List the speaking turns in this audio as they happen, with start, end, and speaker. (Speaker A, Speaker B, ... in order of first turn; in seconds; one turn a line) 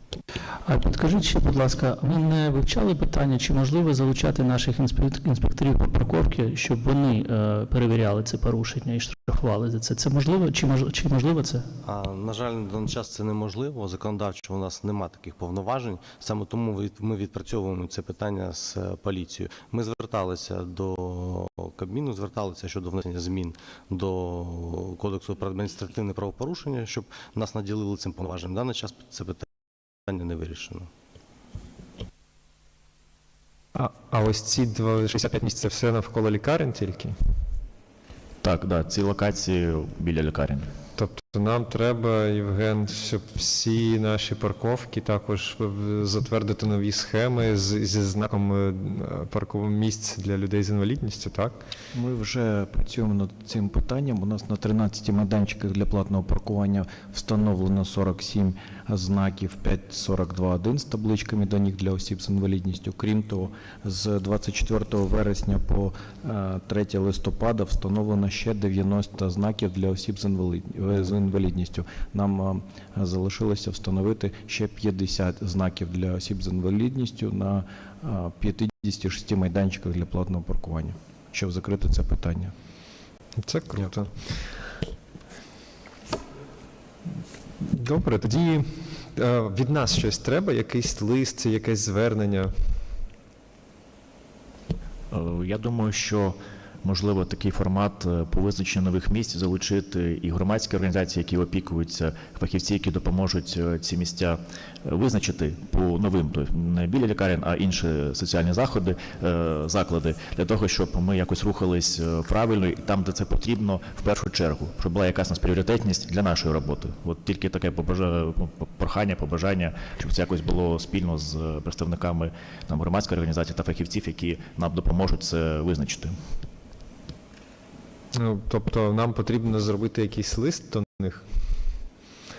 Speaker A: 0.7-11.7
Speaker B: 11.8-29.5
Speaker B: 30.0-30.9
Speaker C: 33.7-37.1
Speaker D: 38.4-40.7
Speaker C: 41.0-51.6
Speaker E: 51.9-82.5
Speaker C: 83.4-84.1
Speaker C: 87.6-92.5
Speaker D: 95.1-126.2
Speaker C: 128.1-131.2